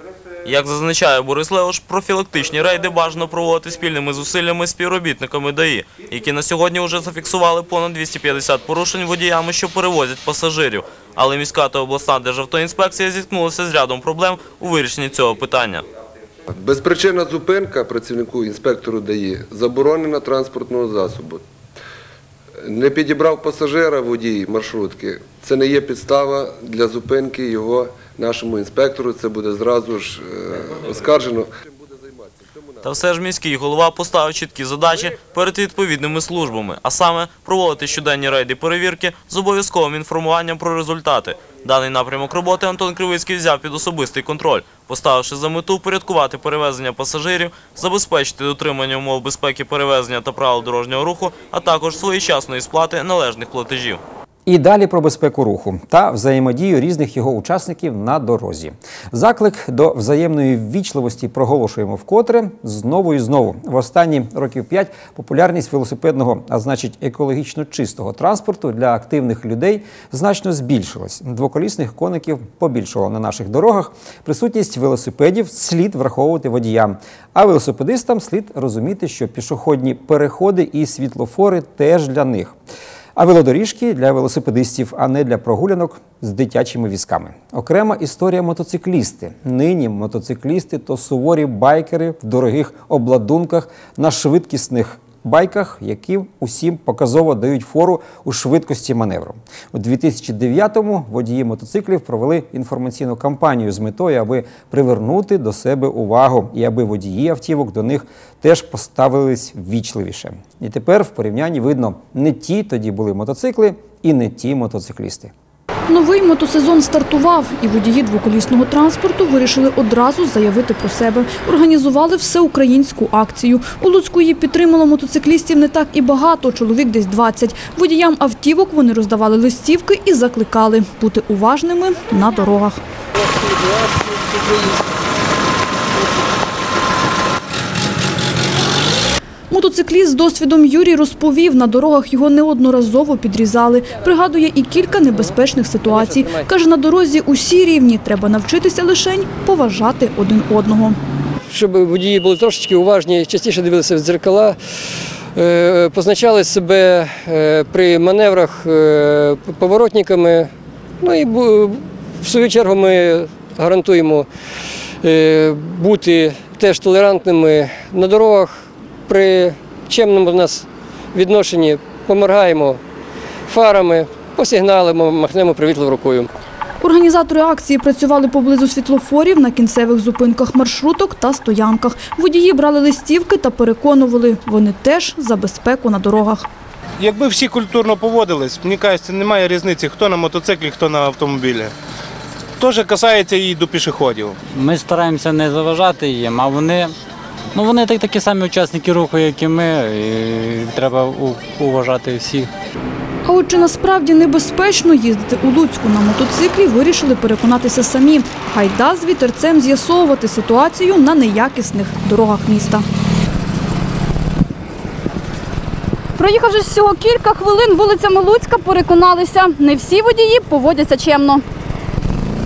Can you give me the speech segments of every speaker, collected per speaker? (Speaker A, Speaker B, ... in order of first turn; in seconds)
Speaker A: 0.4-15.8, 32.8-54.0
Speaker B: 16.5-21.4, 22.6-32.8
Speaker C: 54.5-82.5, 83.2-115.3
Speaker D: 115.9-132.8, 139.5-151.0, 176.8-186.5, 203.2-212.8
Speaker E: 145.1-146.5, 151.5-160.5, 161.0-164.3, 165.0-172.8, 173.5-176.3
Speaker F: 187.0-191.7, 192.6-194.4
Speaker G: 194.5-196.9, 197.5-202.5
Speaker H: 216.2-221.4